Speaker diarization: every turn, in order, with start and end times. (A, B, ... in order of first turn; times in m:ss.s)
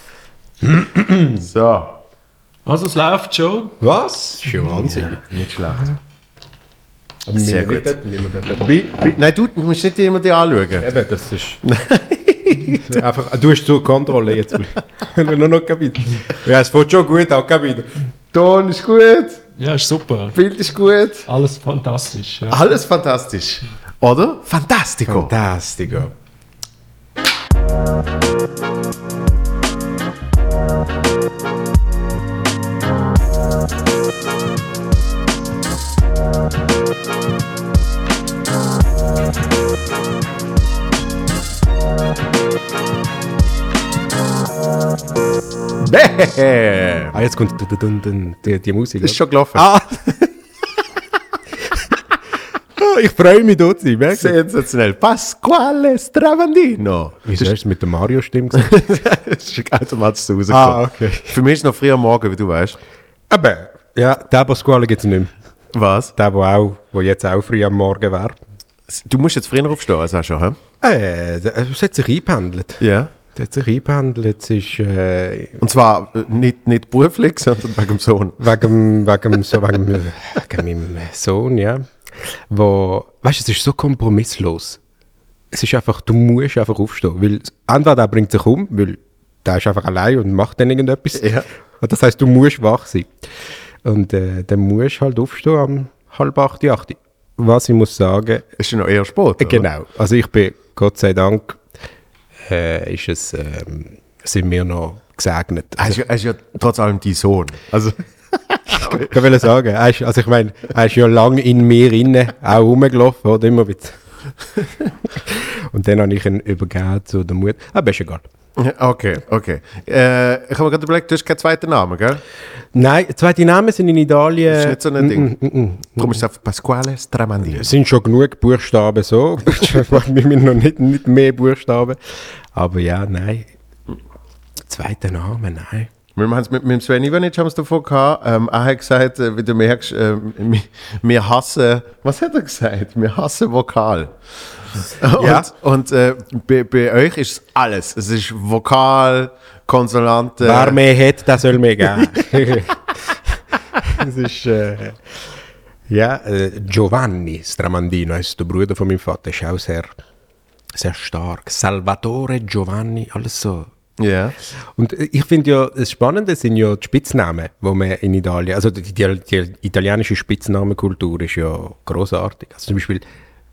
0:00.6-0:01.4 A
0:01.4-0:02.0 B
0:02.6-0:03.8 C
0:03.8-0:05.2 A
0:04.6-0:05.9 B
0:07.2-0:09.0 A
0:07.3-0:08.0 B
0:08.9-0:10.9 B
0:10.8-0:11.6 A
0:11.6-0:13.0 B
0:12.7-0:18.0 A
0:18.3-0:19.4 B
0:19.6-0:20.4 C
0:20.3-0:21.3 B
0:21.3-0:22.7 C
0:22.5-0:25.3 B
0:25.0-0:26.1 A
0:45.8-0:47.1 B
0:47.1-0:50.2 A
0:49.0-0:49.7 B
0:52.8-0:54.4 A
0:54.1-0:57.5 B
0:57.2-0:58.8 A
0:58.5-1:02.8 B
1:00.5-1:01.4 A
1:03.3-1:05.3 A
1:05.7-1:06.1 B
1:06.2-1:08.4 A
1:08.9-1:10.6 B
1:10.8-1:15.6 A
1:12.8-1:13.1 B
1:15.6-1:18.4 B
1:18.4-1:24.8 A
1:25.5-1:33.1 A
1:31.1-1:31.4 B
1:33.8-1:38.4 A
1:38.6-1:39.7 B
1:39.4-1:41.6 A
1:42.4-1:46.0 A
1:45.8-1:49.2 B
1:48.7-1:54.0 A
1:55.1-1:58.3 A
1:58.6-2:02.2 B
2:02.7-2:06.2 A
2:04.5-2:05.3 B
2:06.0-2:07.7 B
2:07.5-2:13.5 A
2:14.7-2:15.9 A
2:16.2-2:30.8 B
2:25.1-2:25.5 A
2:30.4-2:35.3 A
2:31.9-2:32.5 B
2:35.9-2:39.9 A
2:40.7-2:43.7 A
2:44.0-2:44.3 B
2:44.8-2:53.0 A